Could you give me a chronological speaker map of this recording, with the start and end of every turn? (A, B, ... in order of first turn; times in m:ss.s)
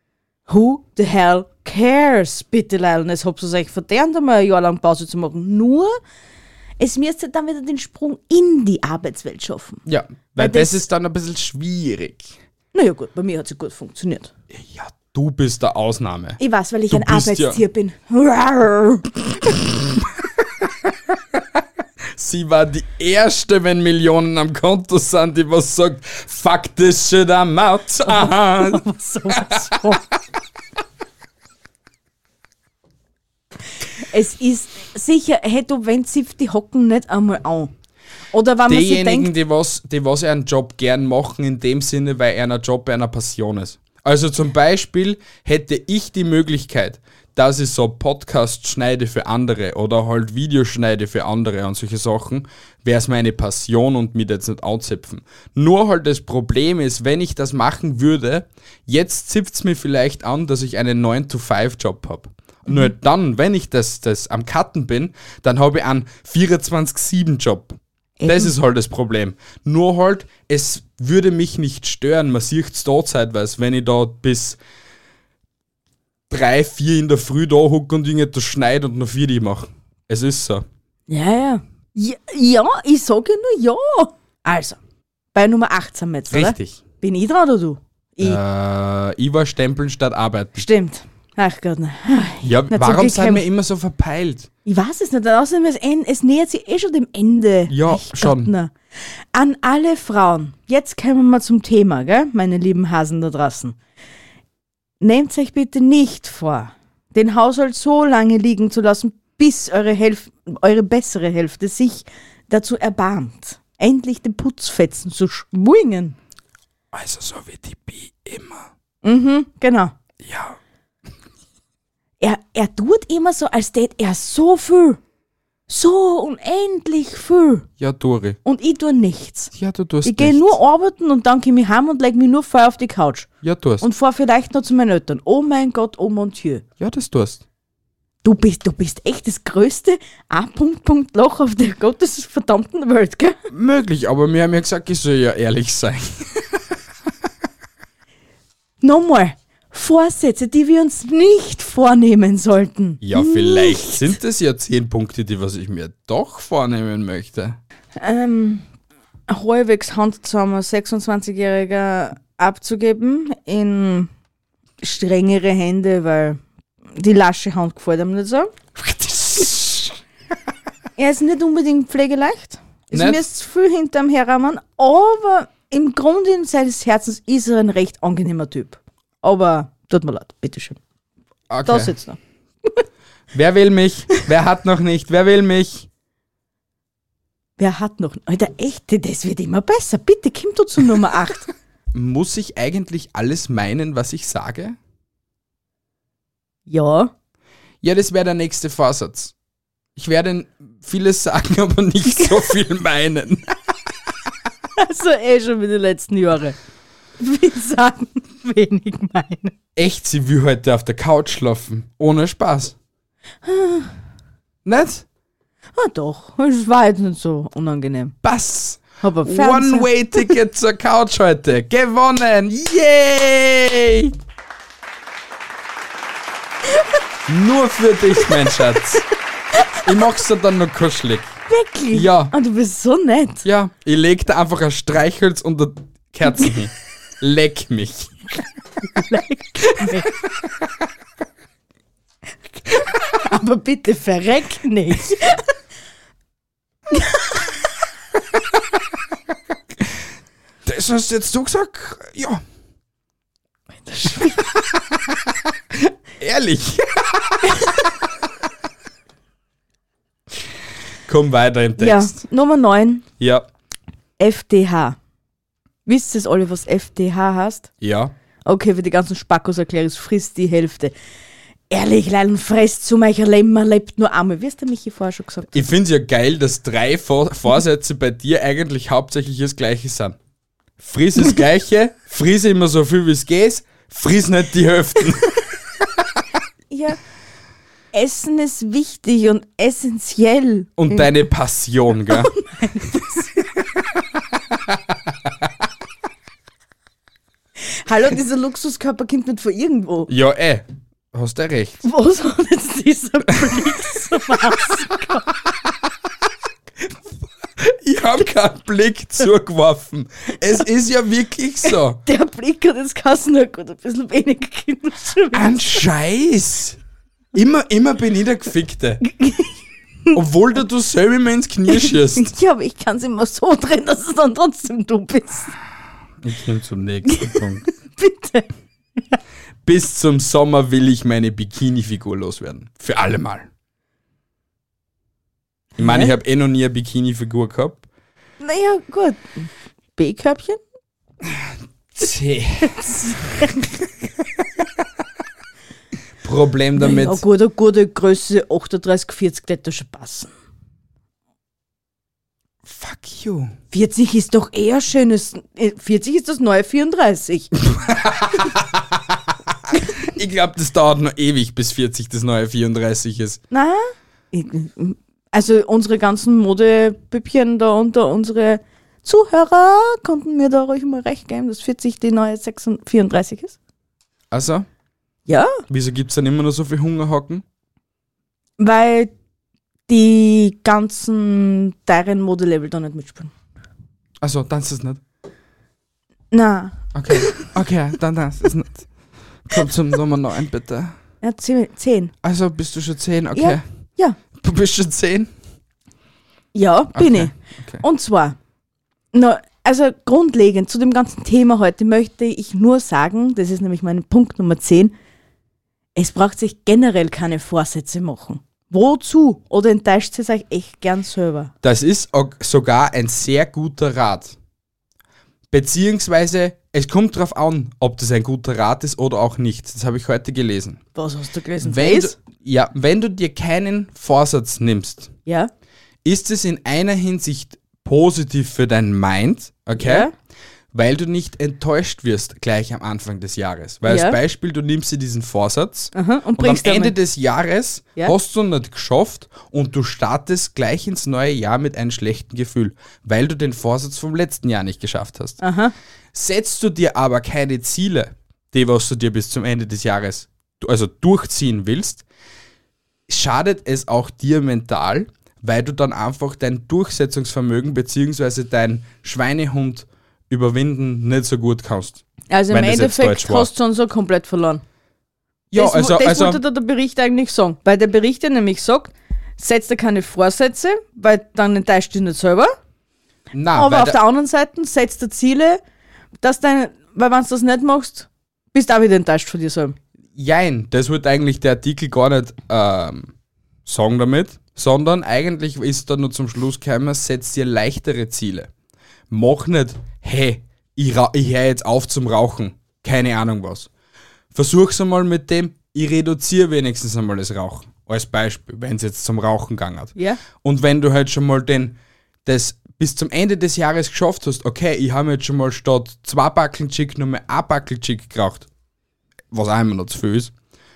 0:00.5-0:06.0 A
0:06.8-0:09.8 A
0:09.9-0:12.4 B
0:10.4-0:10.8 A
0:12.7-0:14.3 A
0:14.5-0:16.4 B
0:16.4-0:19.1 A
0:16.9-0:17.6 B
0:20.9-0:21.4 B
0:22.2-0:28.8 B
0:28.1-0:30.0 A
0:29.3-0:29.9 B
0:34.0-0:37.7 A
0:38.3-0:39.3 A
0:38.7-1:14.6 B
1:08.2-1:08.5 A
1:16.3-1:20.7 B
1:21.1-1:24.8 A
1:25.3-1:28.4 A
1:26.3-1:26.8 B
1:28.2-1:30.7 B
1:30.6-1:33.4 A
1:32.4-1:34.5 B
1:34.6-1:38.7 A
1:37.7-1:38.5 B
1:39.3-1:43.8 A
1:45.0-1:56.2 A
1:56.9-1:58.7 B
1:59.0-1:59.9 A
2:00.2-2:00.6 B
2:02.2-2:05.0 A
2:05.7-2:07.7 A
2:07.8-2:08.4 B
2:08.4-2:09.5 A
2:09.5-2:10.6 B
2:10.0-2:13.3 A
2:13.4-2:13.9 B
2:13.8-2:16.6 A
2:16.8-2:17.4 B
2:18.2-2:23.4 A
2:23.5-2:26.6 B
2:28.8-2:34.0 A
2:33.0-2:37.6 B
2:38.0-2:38.6 A
2:39.3-2:44.1 A
2:44.8-2:46.4 A
2:47.0-2:48.6 A
2:48.8-2:49.9 B
2:51.0-3:00.8 A
2:52.9-2:53.2 B
3:01.5-3:02.0 B
3:01.6-3:02.8 A
3:03.3-3:05.9 B
3:07.6-3:11.5 A
3:11.9-3:14.8 B
3:16.7-3:17.1 A
3:17.8-3:19.3 B
3:20.0-3:23.6 B
3:24.8-3:26.6 A
3:27.2-3:29.5 A
3:29.8-3:32.8 B
3:33.4-3:33.9 A
3:34.6-3:35.0 B
3:35.8-3:38.2 A
3:38.2-3:44.2 B
3:39.0-3:40.3 A
3:47.3-3:49.0 B
3:49.8-3:51.4 B
3:51.5-3:53.4 A
3:51.9-3:52.3 B
3:53.4-3:58.2 B
3:58.9-4:00.1 A
4:03.1-4:05.5 A
4:10.6-4:12.4 B
4:13.9-4:14.5 A
4:14.8-4:15.1 B
4:15.7-4:17.9 B
4:21.1-4:22.2 B
4:21.8-4:23.0 A
4:23.2-4:23.5 B
4:24.2-4:25.0 A
4:25.9-4:27.7 A
4:27.8-4:28.1 B
4:28.5-4:30.9 A
4:31.7-4:35.6 A
4:35.5-4:40.2 B
4:40.8-4:45.9 B
4:46.7-4:47.0 A
4:47.9-4:51.1 A
4:50.8-4:52.3 B
4:52.1-4:53.5 A
4:57.8-5:00.1 A
5:00.1-5:01.8 B
5:01.8-5:05.3 A
5:03.4-5:04.3 B
5:07.4-5:12.0 B
5:11.7-5:15.8 A
5:15.3-5:16.8 B
5:17.3-5:19.0 B
5:19.1-5:19.5 A
5:20.1-5:22.3 B
5:21.7-5:25.6 A
5:26.2-5:27.6 B
5:27.1-5:28.5 A
5:29.6-5:33.5 B
5:35.8-5:37.8 B
5:35.8-5:36.1 A
5:38.4-5:40.6 A
5:41.2-5:43.0 B
5:42.6-5:43.6 A
5:46.2-5:47.2 B
5:46.8-5:50.3 A
5:52.6-5:53.5 B
5:53.7-5:57.5 A
5:57.6-6:03.4 B
6:03.5-6:13.6 A
6:14.3-6:14.7 B
6:15.3-6:15.6 A
6:15.7-6:17.4 B
6:18.6-6:19.1 A
6:19.9-6:23.3 A
6:24.2-6:25.0 B
6:26.3-6:27.5 A
6:26.9-6:28.9 B
6:29.5-6:30.9 B
6:31.2-6:32.1 A
6:32.2-6:33.6 B
6:33.4-6:34.2 A
6:34.3-6:35.3 B
6:36.5-6:38.4 A
6:37.0-6:37.8 B
6:39.1-6:44.9 A
6:46.0-6:51.5 A
6:51.6-6:54.4 B
6:55.5-7:00.8 B
7:01.0-7:02.1 A
7:01.6-7:05.1 B
7:05.3-7:05.5 A
7:06.0-7:10.1 B
7:09.8-7:10.1 A
7:10.7-7:25.4 B
7:13.9-7:14.2 A
7:15.9-7:17.0 A
7:25.4-7:25.7 A
7:26.1-7:32.0 B
7:33.1-7:43.5 B
7:42.3-7:44.6 A
7:45.5-7:46.4 B
7:45.6-7:52.5 A
7:53.3-7:54.0 B
7:53.5-7:55.6 A
7:56.2-7:59.8 A
8:00.2-8:03.1 B
8:03.6-8:08.5 B
8:09.1-8:13.7 B
8:14.3-8:28.5 B
8:20.0-8:20.2 A
8:29.3-8:30.3 B